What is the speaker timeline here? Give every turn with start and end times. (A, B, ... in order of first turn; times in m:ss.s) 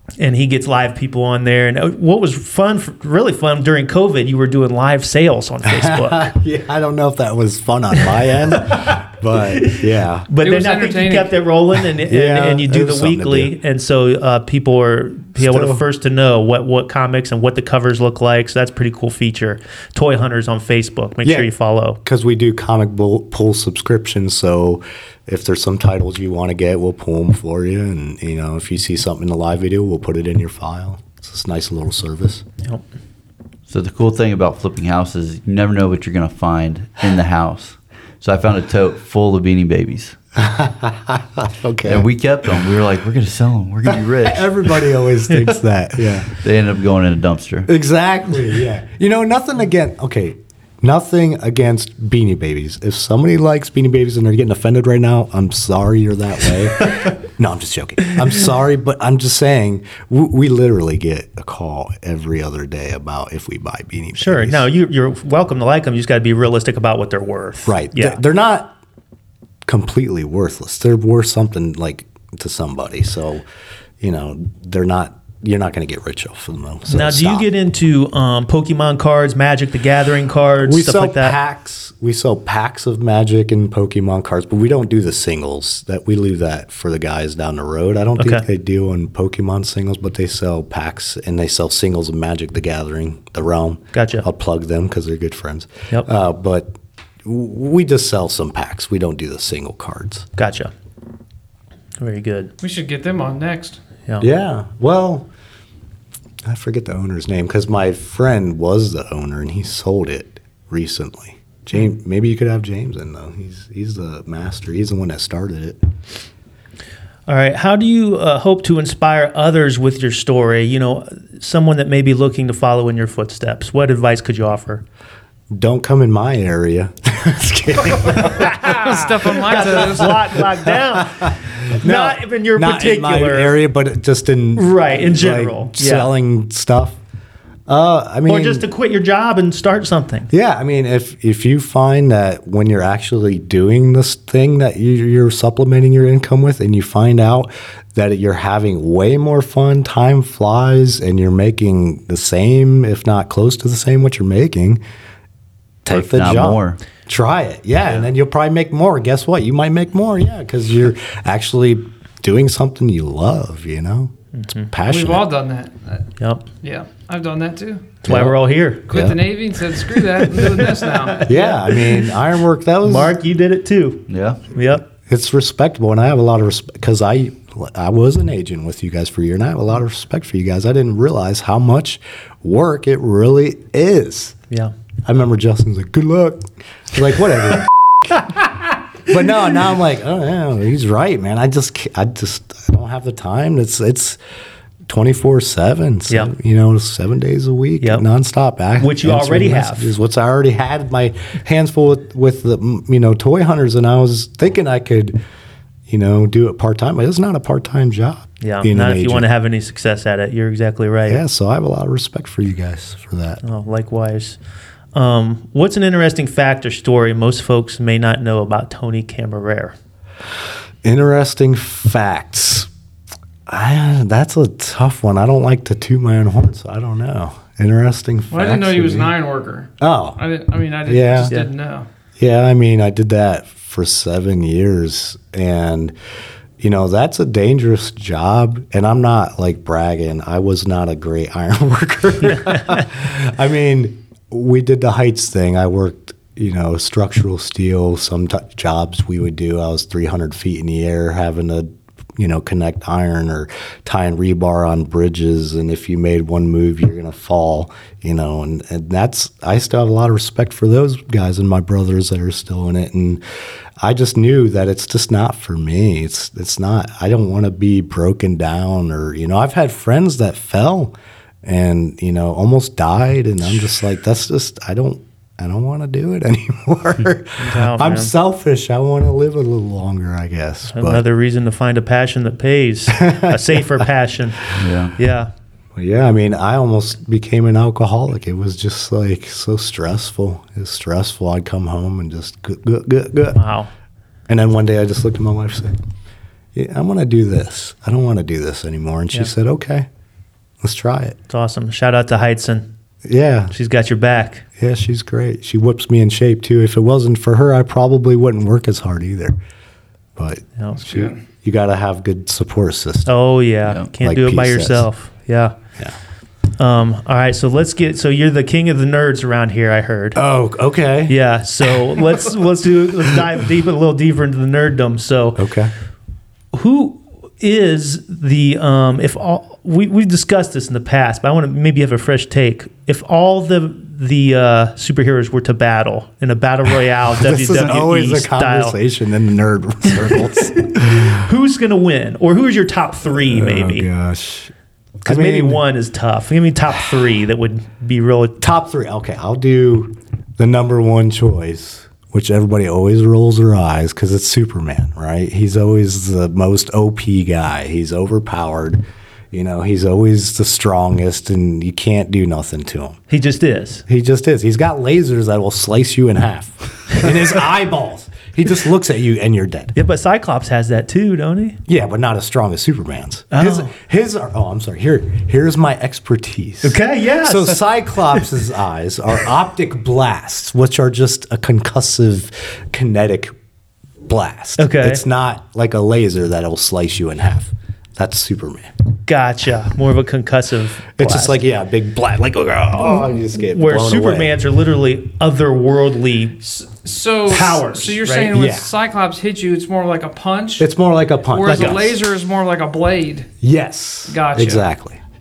0:00.2-0:06.3 A
0:05.6-0:10.3 B
0:08.6-0:09.0 A
0:09.6-0:22.0 A
0:10.4-0:11.3 C
0:12.0-0:13.5 B
0:15.4-0:15.8 B
0:21.2-0:21.5 B
0:22.0-0:32.4 B
0:33.7-0:40.2 D
0:40.4-0:42.1 B
0:41.8-0:44.9 D
0:43.8-0:46.3 B
0:46.2-0:47.7 D
0:47.7-1:04.7 B
1:04.2-1:08.2 A
1:07.6-1:08.8 B
1:09.6-1:13.4 B
1:14.0-1:17.5 B
1:16.9-1:21.3 A
1:20.6-1:36.7 B
1:28.2-1:28.4 A
1:33.9-1:34.2 A
1:37.2-1:40.3 B
1:40.4-1:40.7 A
1:42.0-1:42.5 A
1:42.6-1:43.8 C
1:44.2-1:45.3 B
1:46.4-1:55.8 B
1:57.3-2:04.8 A
2:05.5-2:08.7 B
2:08.3-2:13.6 A
2:08.5-2:10.2 C
2:09.5-2:17.0 B
2:14.6-2:16.1 A
2:17.7-2:18.6 B
2:18.3-2:20.3 A
2:20.3-2:34.8 B
2:35.8-2:44.1 B
2:35.9-2:36.8 D
2:44.3-2:44.7 A
2:44.7-2:45.2 B
2:44.9-2:46.1 C
2:46.2-2:46.4 A
2:46.6-2:48.0 C
2:48.0-2:49.2 A
2:48.0-2:48.4 B
2:48.9-2:51.2 C
2:48.9-2:49.2 B
2:50.2-2:52.1 A
2:51.2-2:53.2 B
2:52.8-2:54.9 A
2:54.1-2:54.4 D
2:55.1-3:04.4 B
3:05.0-3:08.5 B
3:09.0-3:14.2 B
3:14.9-3:25.2 B
3:17.8-3:18.0 A
3:18.8-3:19.9 A
3:25.9-3:29.3 B
3:28.4-3:31.2 A
3:31.1-3:33.4 B
3:33.4-3:34.4 A
3:34.9-3:39.7 A
3:40.8-3:42.7 B
3:43.5-3:49.1 B
3:48.3-3:51.9 C
3:49.8-3:50.2 B
3:50.8-3:51.4 B
3:52.2-3:55.9 B
3:56.6-4:23.2 B
4:23.8-4:41.0 B
4:37.4-4:38.1 A
4:40.7-4:45.3 A
4:42.9-4:43.8 B
4:44.5-4:44.9 D
4:45.8-4:53.4 B
4:53.3-4:53.7 A
4:54.3-4:55.8 B
4:56.5-4:59.9 B
5:00.6-5:01.2 B
5:01.3-5:02.7 A
5:03.0-5:03.5 B
5:03.5-5:04.4 A
5:04.6-5:09.3 B
5:10.2-5:13.1 B
5:10.6-5:11.1 A
5:10.9-5:11.1 C
5:13.0-5:15.5 A
5:14.0-5:14.9 B
5:16.6-5:20.2 A
5:20.1-5:22.2 B
5:21.1-5:25.5 A
5:25.4-5:25.7 B
5:26.5-5:38.8 A
5:37.2-5:41.2 B
5:40.0-5:43.9 A
5:43.1-5:44.5 B
5:45.0-5:48.4 A
5:45.0-5:45.6 B
5:48.4-6:03.0 B
6:03.1-6:03.8 A
6:03.9-6:09.7 B
6:09.7-6:11.6 A
6:11.7-6:23.3 B
6:13.3-6:13.7 A
6:16.6-6:17.6 A
6:24.0-6:28.7 B
6:24.6-6:25.0 A
6:29.1-6:31.4 A
6:31.0-6:34.3 B
6:33.5-6:36.4 A
6:36.4-6:40.7 C
6:37.3-6:38.3 A
6:38.3-6:38.7 B
6:40.6-6:42.0 B
6:41.3-6:43.3 C
6:43.4-6:45.0 B
6:44.1-6:44.6 C